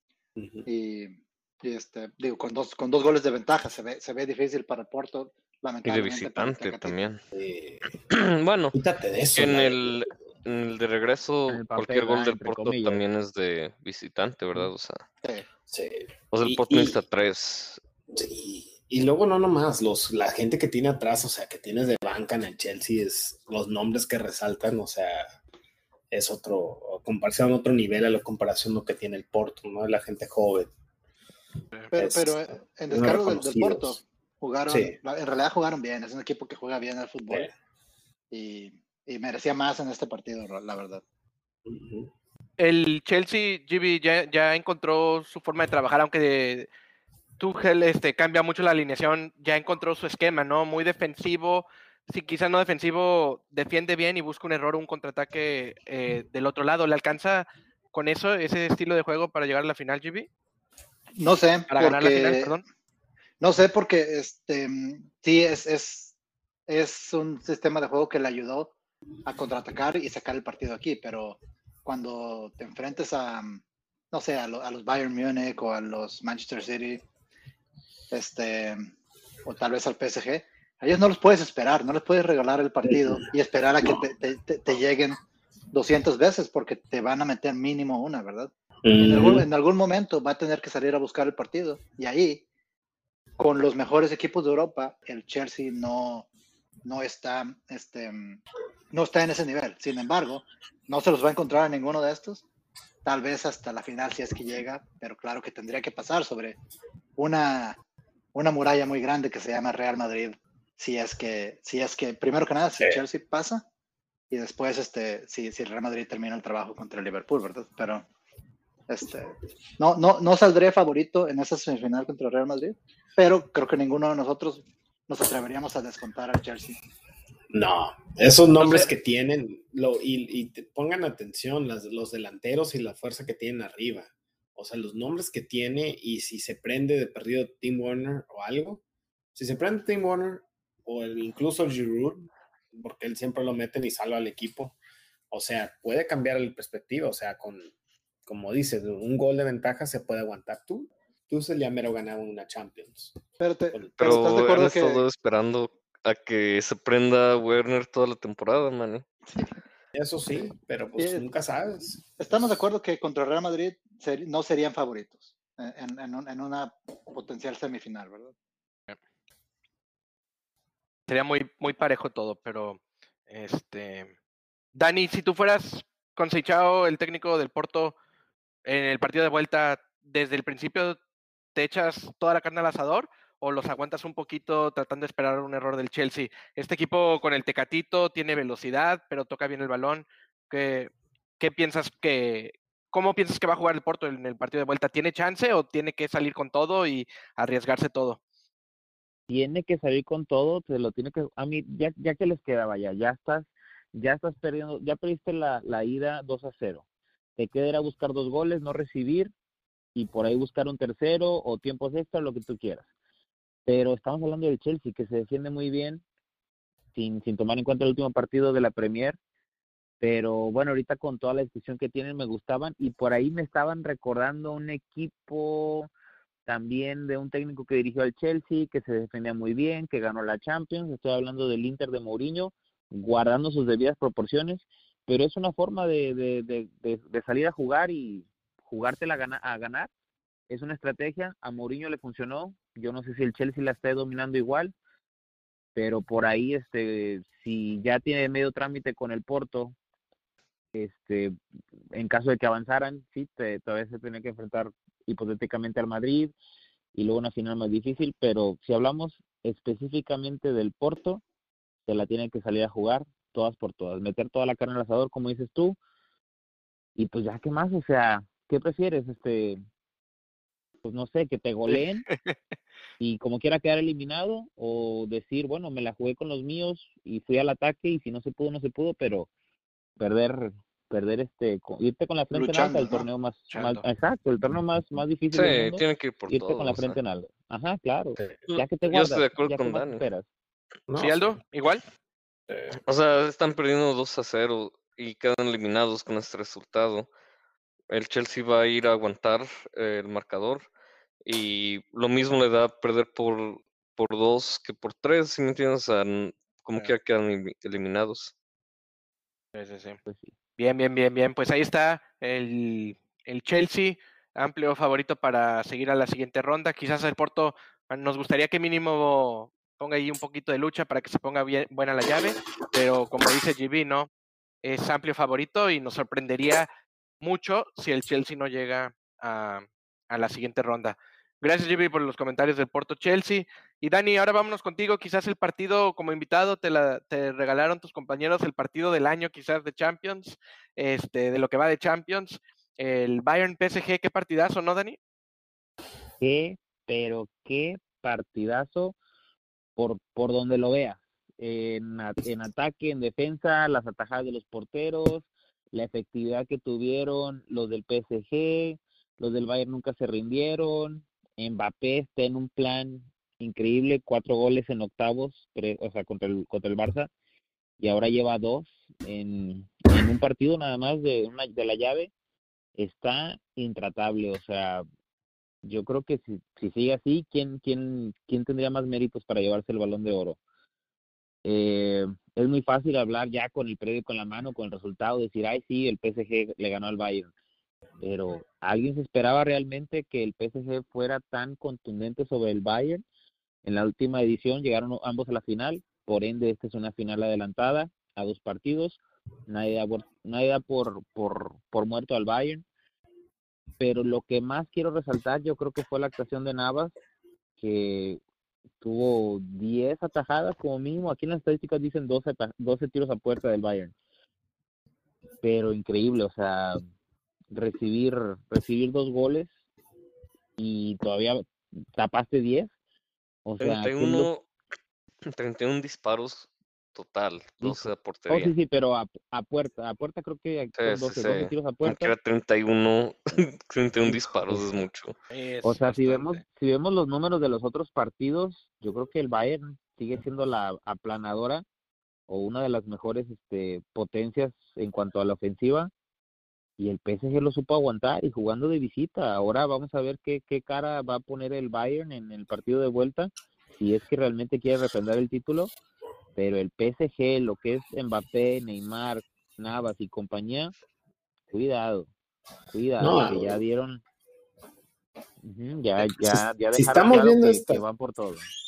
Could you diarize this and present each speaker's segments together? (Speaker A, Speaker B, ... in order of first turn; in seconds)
Speaker A: 0.4-0.7, 7.3-8.0, 8.7-10.0, 15.7-17.0, 18.1-25.3, 26.1-30.7, 31.9-34.0, 34.7-35.0, 41.6-42.1, 82.9-83.2, 88.8-89.5, 127.5-138.8, 139.3-144.8, 145.3-147.7, 148.2-153.1, 159.9-162.1, 290.9-291.4, 292.5-292.8, 463.0-463.6, 466.0-467.8
Speaker B: 0.7-7.0, 31.9-37.5, 38.3-41.0, 61.2-62.6, 63.4-66.1, 66.7-68.8, 69.2-77.0, 78.1-78.9, 79.5-85.2, 85.7-92.4, 93.4-96.3, 96.8-98.4, 98.9-102.4, 103.0-106.6, 107.2-107.8, 108.3-113.7, 114.3-118.0, 118.9-126.8, 153.4-155.1, 161.0-161.2, 162.2-168.3, 282.3-283.1
Speaker C: 5.8-7.2, 8.1-8.8, 9.3-15.0, 16.3-17.8, 154.0-159.0, 285.3-287.0, 288.5-290.0, 292.9-297.1, 297.9-300.7, 301.2-308.3, 423.6-424.5, 425.3-428.5, 430.8-435.1
Speaker D: 11.5-13.0, 199.3-206.8, 207.4-209.3, 209.9-212.8, 213.7-216.0, 216.9-219.2, 220.0-225.9, 226.5-239.9, 240.5-244.7, 245.8-249.8, 250.7-251.4, 251.9-256.3, 256.9-261.2, 261.9-265.8, 267.0-269.6, 270.8-272.1, 273.0-279.3, 280.0-290.3, 310.1-310.3, 346.2-349.0, 349.8-367.1, 367.8-372.1, 372.8-374.9, 375.6-380.4, 381.4-387.3, 388.0-393.0, 393.6-402.6, 403.8-406.9, 407.6-408.2, 408.8-413.9, 415.4-416.8, 417.5-419.5, 420.6-421.4, 422.0-422.7, 423.4-424.3, 427.6-432.1, 434.1-434.8, 435.6-441.6, 442.3-445.9, 446.8-455.7, 456.4-460.7, 461.5-462.1, 462.7-464.0, 465.4-468.5
Speaker E: 42.6-46.7, 47.4-60.3, 61.7-62.6, 171.1-174.1, 174.8-177.9, 178.7-181.0, 181.5-198.2, 271.7-272.4, 283.5-283.8, 291.0-291.8, 309.5-310.0, 310.6-324.1, 324.6-326.7, 327.2-345.0, 435.3-436.4